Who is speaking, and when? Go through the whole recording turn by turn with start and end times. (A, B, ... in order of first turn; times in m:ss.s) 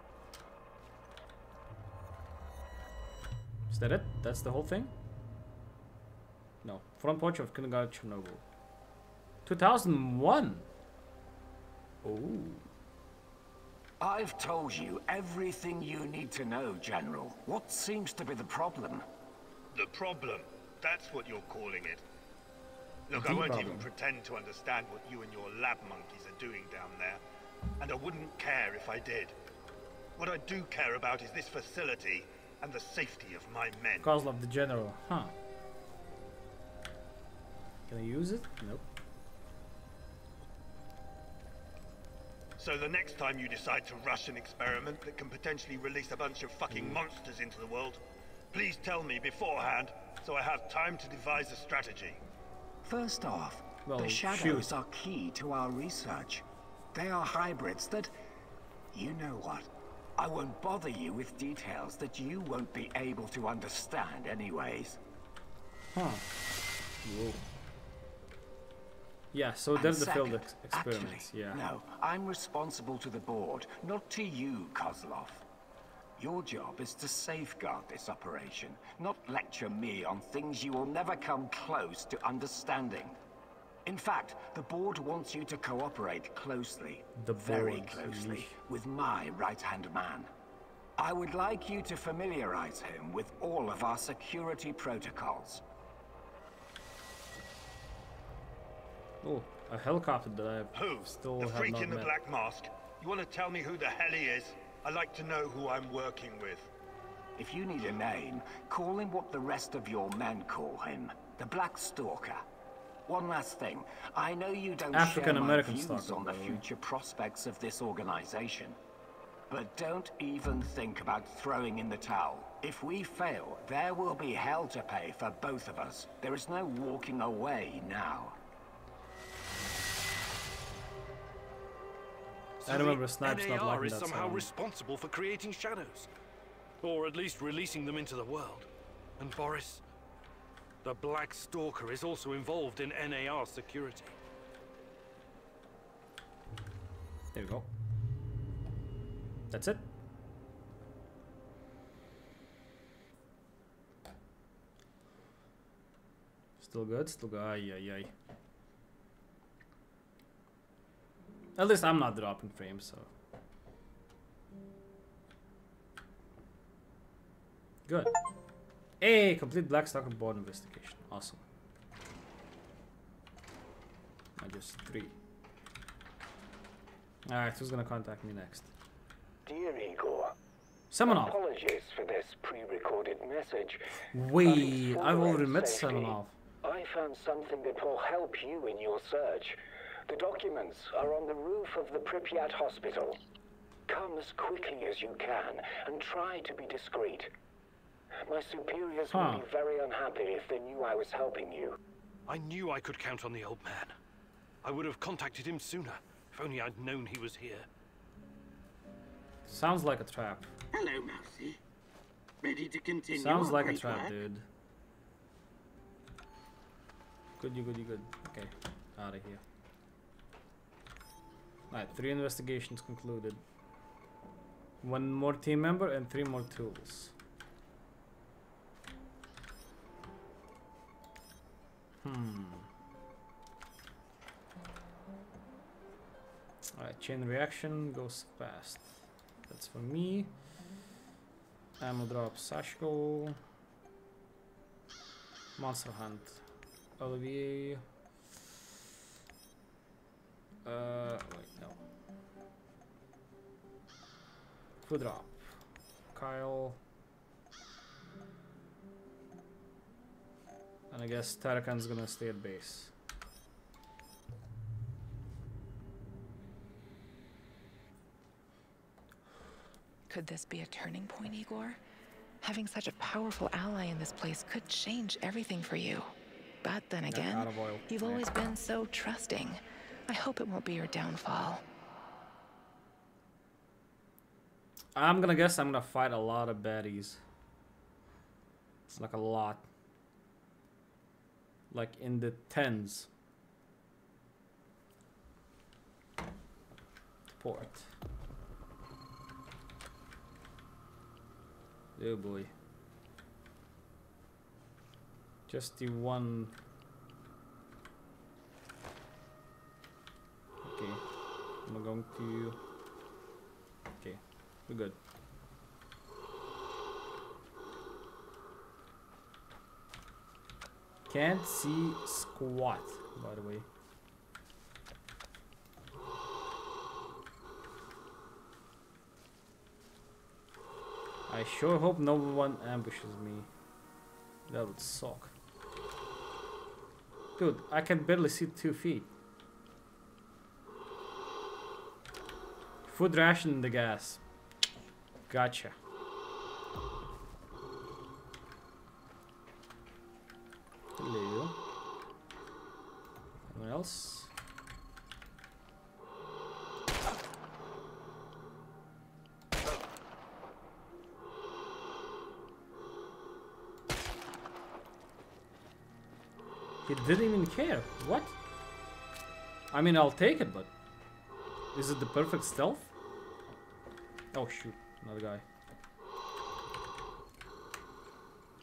0:03.7-0:04.9 A
0:06.6-0:08.4 A
0:09.4-0:10.7 A
0:12.0-0:12.7 A
0:14.0-0:19.1 B
0:19.7-0:22.0 C
0:23.1-0:27.2 C
0:23.1-0:23.9 A
0:27.8-0:29.4 C
0:30.2-0:34.1 C
0:34.0-0:35.3 A
0:37.9-0:38.8 A
0:42.6-0:48.0 C
0:46.7-0:47.0 A
0:48.5-0:52.2 C
0:52.8-0:58.1 B
0:53.8-0:54.7 A
0:58.9-1:05.0 B
1:05.9-1:06.3 A
1:07.0-1:07.4 A
1:09.3-1:11.6 A
1:09.8-1:15.4 B
1:16.2-1:23.2 B
1:23.9-1:30.3 B
1:27.2-1:28.6 A
1:31.0-1:35.6 B
1:39.2-1:42.1 A
1:40.8-1:46.7 C
1:47.4-1:52.4 B
1:53.1-1:58.8 B
1:54.9-1:56.6 A
1:59.5-2:08.4 B
2:12.6-2:16.1 D
2:12.7-2:14.5 A
2:16.8-2:18.7 D
2:19.2-2:19.8 D
2:20.8-2:24.2 D
2:27.3-2:27.7 A
2:29.5-2:29.9 A
2:36.6-2:38.1 A
2:41.6-2:43.1 A
2:47.9-2:48.2 A
2:49.0-2:51.4 A
2:54.4-2:55.2 A
2:57.3-2:58.7 A
2:59.5-3:00.4 E
3:00.9-3:01.4 A
3:01.0-3:13.2 E
3:04.1-3:06.3 A
3:13.9-3:17.3 E
3:18.2-3:21.8 E
3:19.1-3:19.4 A
3:22.3-3:24.0 D
3:24.6-3:27.7 D
3:29.5-3:30.5 A
3:30.7-3:31.6 F
3:32.4-3:34.2 F
3:33.1-3:34.5 A
3:37.4-3:39.4 A
3:41.7-3:43.4 A
3:44.8-3:47.1 A
3:52.0-3:52.7 A
3:56.8-4:00.3 A
4:01.8-4:03.4 A
4:05.6-4:06.5 A
4:07.0-4:07.8 A
4:10.6-4:11.8 A
4:14.8-4:15.6 A
4:16.1-4:16.8 A
4:20.9-4:22.9 A
4:30.1-4:31.8 G
4:32.4-4:36.1 G
4:36.6-4:41.6 G
4:37.1-4:38.3 A
4:45.0-4:47.2 A
4:48.9-4:49.7 A
4:51.7-4:53.1 A
4:57.3-4:57.9 A
5:02.0-5:02.5 A
5:05.5-5:06.6 A
5:10.6-5:11.0 A
5:11.6-5:12.6 A
5:14.0-5:15.0 A
5:21.1-5:23.7 A
5:31.3-5:33.5 A
5:34.5-5:35.3 A
5:37.4-5:39.1 A
5:42.9-5:44.2 A
5:45.3-5:45.8 A
5:51.0-5:51.6 A
5:53.5-5:54.3 A
6:06.8-6:08.4 A
6:09.7-6:10.7 A
6:11.7-6:12.9 A
6:14.3-6:15.4 A